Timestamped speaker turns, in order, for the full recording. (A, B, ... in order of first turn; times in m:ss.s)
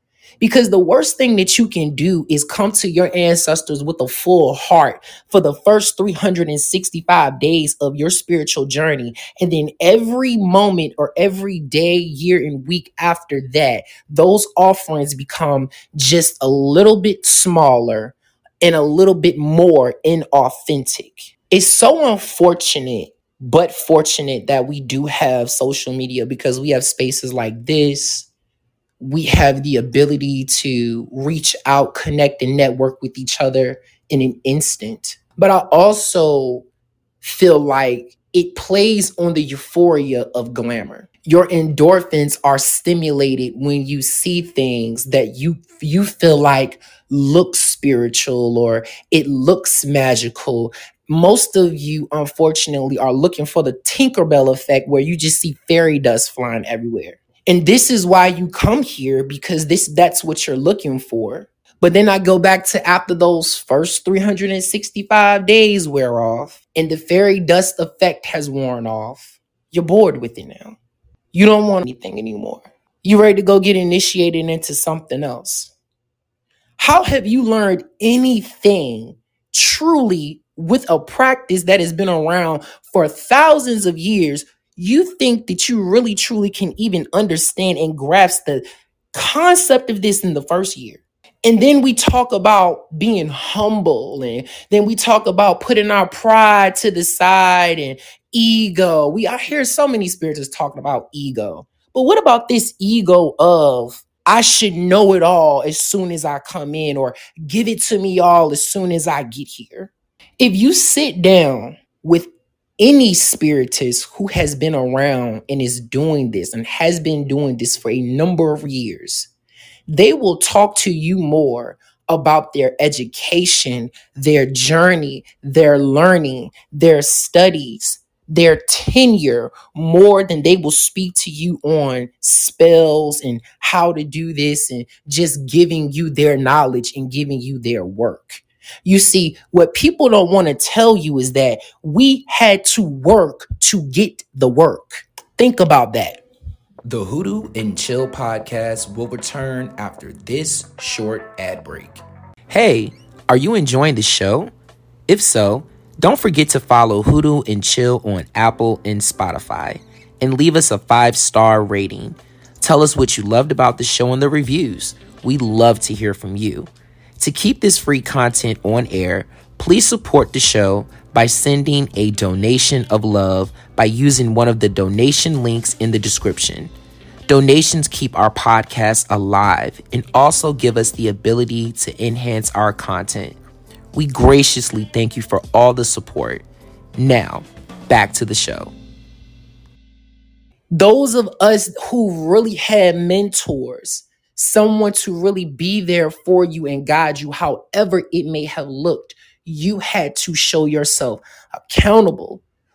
0:00.4-0:28.3 A
0:29.0-0:36.7 A
0:37.2-1:10.8 A
1:11.3-1:15.7 A
1:16.8-1:59.3 A
1:59.9-2:26.2 A
2:26.8-2:34.5 A
2:35.1-2:56.7 A
2:57.3-3:03.4 A
3:03.9-3:06.4 A
3:07.0-3:08.7 A
3:10.7-3:22.4 A